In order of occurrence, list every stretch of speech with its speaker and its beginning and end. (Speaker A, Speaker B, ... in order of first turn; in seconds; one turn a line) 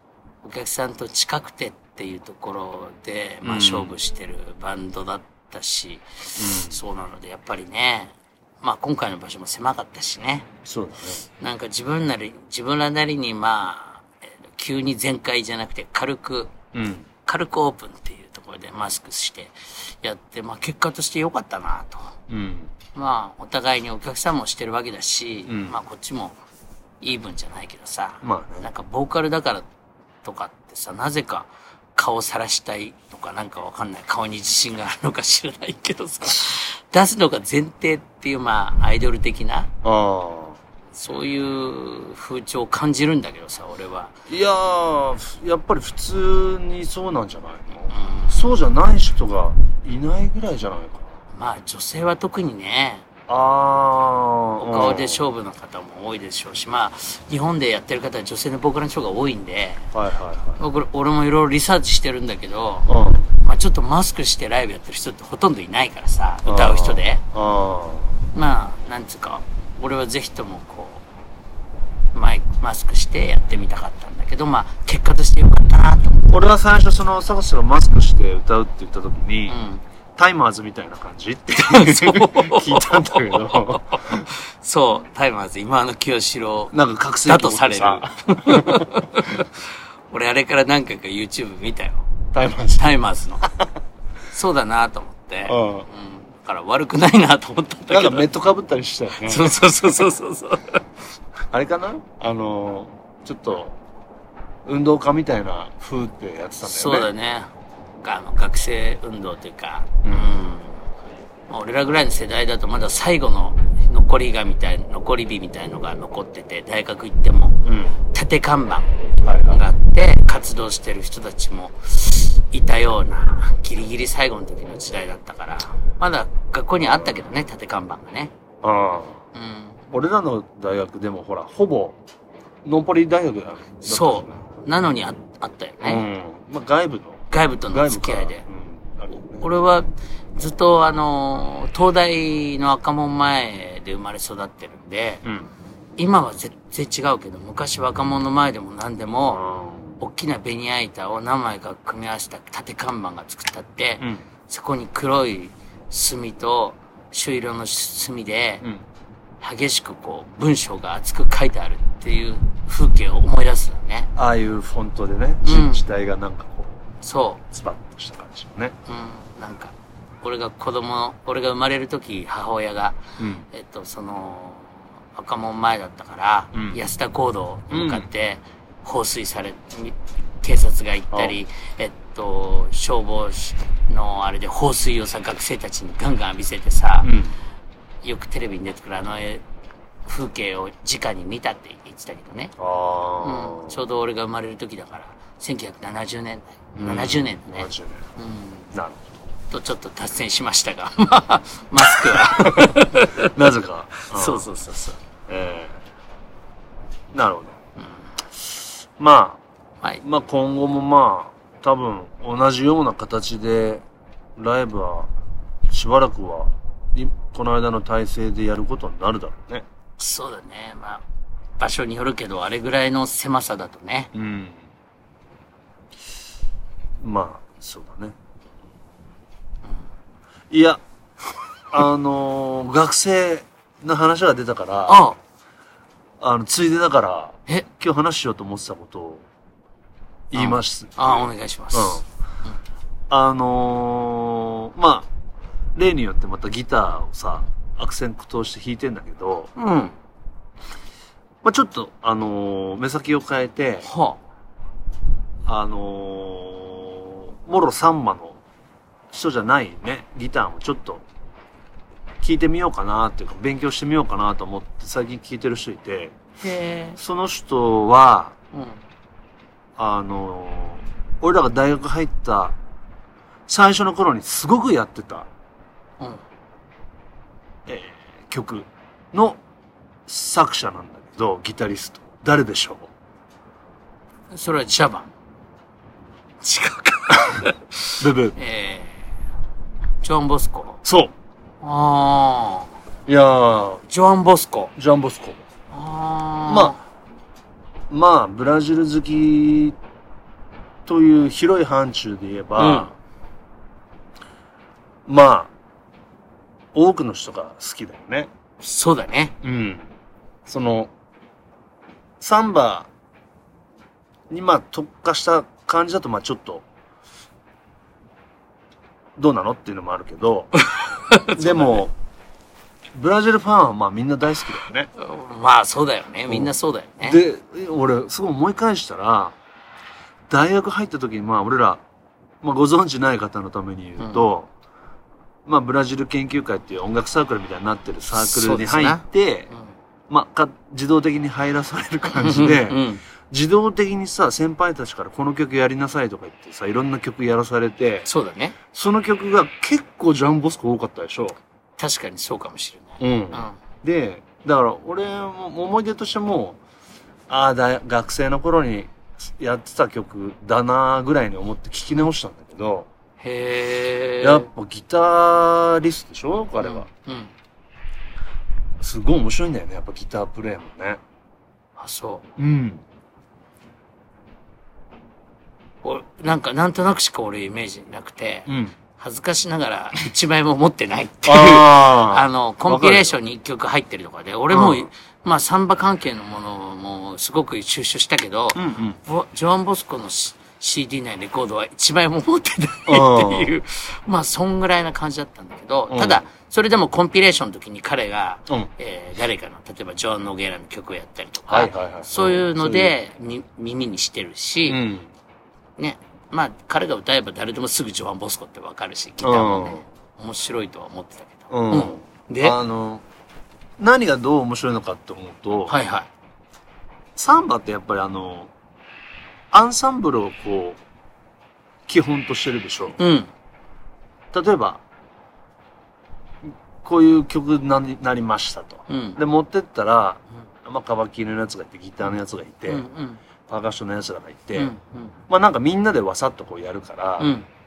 Speaker A: 0.4-10.5
Speaker B: 3.4-3.9
Speaker B: 6.4-6.8
Speaker B: 10.6-11.2
Speaker A: 11.4-16.5
Speaker B: 16.7-17.1
Speaker A: 17.2-22.1
Speaker B: 22.3-22.7
Speaker A: 22.9-26.4
Speaker B: 25.4-25.8
Speaker A: 27.0-29.7
Speaker B: 28.2-28.7
Speaker A: 30.2-39.7
Speaker B: 39.8-40.6
Speaker A: 40.9-44.1
Speaker B: 44.3-51.1
Speaker A: 47.9-48.6
Speaker A: 51.3-53.0
Speaker B: 53.3-55.2
Speaker A: 54.6-59.9
Speaker B: 59.9-60.6
Speaker A: 60.6-67.2
Speaker B: 62.9-63.3
Speaker B: 66.4-68.2
Speaker A: 68.3-71.0
Speaker A: 72.1-76.4
Speaker B: 76.3-79.6
Speaker A: 79.5-79.8
Speaker B: 80.2-84.3
Speaker A: 81.5-86.7
Speaker B: 86.7-89.4
Speaker A: 87.2-92.1
Speaker B: 92.3-93.7
Speaker A: 92.7-93.5
Speaker A: 94.3-98.3
Speaker B: 95.5-95.9
Speaker B: 97.9-100.0
Speaker A: 99.2-100.8
Speaker B: 101.5-103.8
Speaker B: 104.6-107.1
Speaker A: 106.6-107.5
Speaker A: 108.0-110.8
Speaker B: 110.0-110.3
Speaker A: 111.5-117.6
Speaker B: 117.6-118.0
Speaker A: 118.1-118.9
Speaker B: 119.2-119.6
Speaker A: 119.5-128.3
Speaker B: 128.6-129.2
Speaker A: 129.3-129.8
Speaker B: 129.9-132.0
Speaker B: 132.6-134.4
Speaker A: 133.8-136.0
Speaker B: 135.8-139.5
Speaker A: 137.3-138.4
Speaker A: 139.4-145.2
Speaker B: 145.2-145.5
Speaker A: 146.0-149.4
Speaker B: 149.2-150.0
Speaker A: 150.0-158.6
Speaker A: 159.4-164.1
Speaker B: 164.2-166.8
Speaker A: 165.4-165.8
Speaker A: 167.0-167.4
Speaker B: 167.5-168.7
Speaker A: 168.8-173.0
Speaker B: 173.2-173.5
Speaker A: 173.5-187.1
Speaker B: 176.5-176.8
Speaker B: 177.7-178.1
Speaker B: 181.1-181.4
Speaker B: 187.0-187.3
Speaker A: 188.0-189.4
Speaker A: 190.1-192.5
Speaker B: 192.6-193.8
Speaker A: 193.2-198.7
Speaker B: 196.8-198.0
Speaker B: 198.7-199.2
Speaker A: 199.5-203.5
Speaker B: 201.8-204.5
Speaker A: 204.0-205.0
Speaker B: 205.3-205.8
Speaker B: 207.1-207.6
Speaker A: 207.8-208.0
Speaker B: 209.0-209.4
Speaker B: 210.0-213.8
Speaker B: 214.3-215.1
Speaker B: 215.7-219.7
Speaker A: 220.0-221.0
Speaker A: 221.6-224.1
Speaker B: 224.1-224.6
Speaker B: 227.0-228.2
Speaker B: 230.5-230.8
Speaker B: 231.7-235.1
Speaker A: 234.9-235.2
Speaker B: 236.2-239.2
Speaker B: 240.3-242.0
Speaker A: 240.3-242.0
Speaker B: 243.1-245.1
Speaker B: 245.7-249.5
Speaker A: 249.6-249.9
Speaker B: 251.4-253.9
Speaker A: 253.8-254.2
Speaker B: 255.4-258.4
Speaker B: 259.1-261.0
Speaker B: 262.2-266.1
Speaker A: 266.4-267.0
Speaker B: 267.0-268.3
Speaker A: 268.5-268.8
Speaker B: 269.8-272.6
Speaker B: 273.5-275.3
Speaker B: 277.6-279.4
Speaker B: 280.1-282.9
Speaker A: 284.3-285.1
Speaker A: 286.4-289.1
Speaker B: 288.0-288.4
Speaker A: 290.0-290.8
Speaker B: 290.8-291.1
Speaker A: 291.6-292.7
Speaker B: 293.1-293.8
Speaker A: 293.9-294.7
Speaker B: 294.8-295.4
Speaker A: 295.7-296.8
Speaker B: 296.5-296.8
Speaker B: 297.9-299.8
Speaker B: 300.9-302.9
Speaker A: 302.6-302.9
Speaker B: 305.1-305.5
Speaker B: 306.7-308.3
Speaker A: 308.6-309.3
Speaker B: 309.4-309.9
Speaker B: 310.4-310.9
Speaker B: 312.2-312.9
Speaker B: 314.3-316.6
Speaker B: 319.1-320.5
Speaker A: 320.6-321.9
Speaker B: 321.3-321.9
Speaker B: 322.9-324.9
Speaker A: 324.9-327.2
Speaker B: 326.3-329.4
Speaker B: 330.3-331.8
Speaker B: 332.4-334.5
Speaker A: 334.0-334.2
Speaker B: 335.4-339.5
Speaker A: 338.1-339.7
Speaker B: 340.1-348.1
Speaker A: 342.1-343.0
Speaker A: 348.1-348.6
Speaker B: 348.7-351.4
Speaker A: 351.8-353.6
Speaker B: 353.0-356.6
Speaker B: 357.3-362.9
Speaker A: 363.2-364.5
Speaker B: 364.2-366.9
Speaker A: 366.6-367.3
Speaker B: 368.8-371.0
Speaker A: 371.8-372.3
Speaker B: 372.4-372.8
Speaker A: 375.8-404.8
Speaker B: 378.5-378.8
Speaker B: 381.2-383.2
Speaker B: 384.5-384.9
Speaker B: 388.5-389.0
Speaker B: 392.9-393.5
Speaker B: 395.9-396.2
Speaker B: 401.5-402.9
Speaker B: 404.7-405.1
Speaker A: 405.8-412.6
Speaker B: 409.2-409.8
Speaker B: 411.5-413.0
Speaker B: 413.8-415.7
Speaker A: 415.7-416.1
Speaker B: 417.1-418.5
Speaker B: 419.5-420.8
Speaker B: 421.9-423.0
Speaker A: 423.0-423.3
Speaker B: 424.3-424.8
Speaker B: 426.4-432.9
Speaker A: 428.9-429.2
Speaker A: 432.7-433.2
Speaker B: 433.5-434.7
Speaker A: 434.6-435.1
Speaker B: 435.3-437.4
Speaker A: 437.2-437.5